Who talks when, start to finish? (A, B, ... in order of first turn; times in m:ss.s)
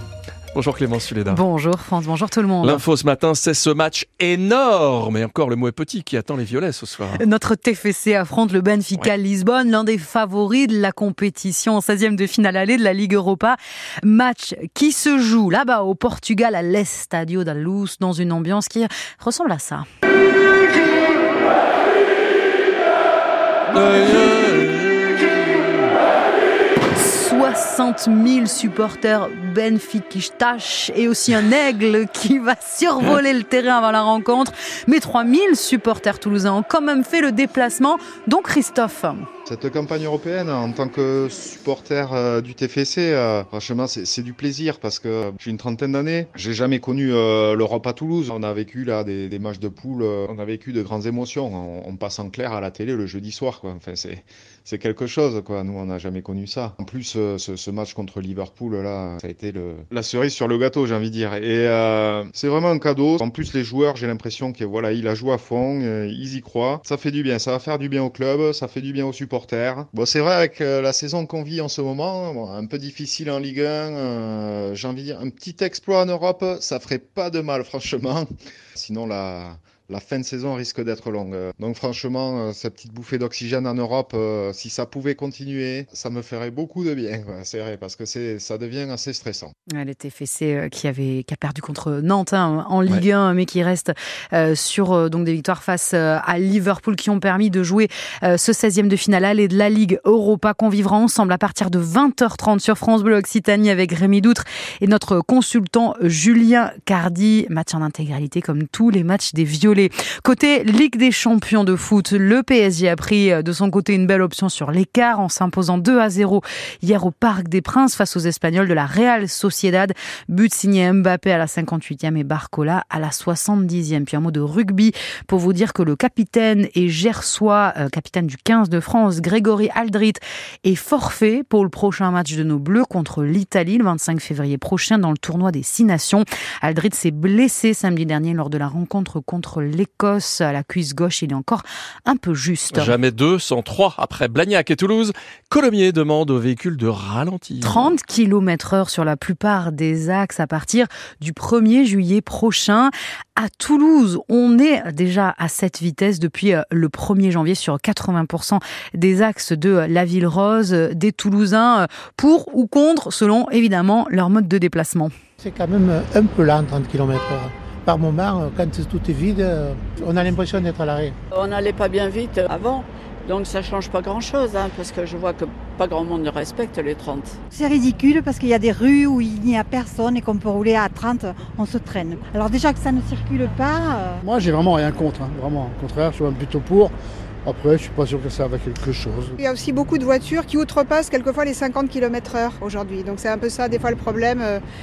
0:00.5-0:01.4 A
0:01.3-0:02.8 B
0:02.6-0:07.2 A
0:07.2-0:19.8 B
0:23.7-0:25.7 A
0:26.9-0:39.3 B
0:39.5-1:29.5 C
1:29.7-2:23.0 B
2:22.7-2:28.0 A
2:27.6-2:45.1 B
2:45.4-2:51.1 D
2:51.3-2:57.4 E
2:57.5-3:04.2 F
3:04.2-3:06.9 G
3:07.4-3:09.4 G
3:09.4-3:14.6 H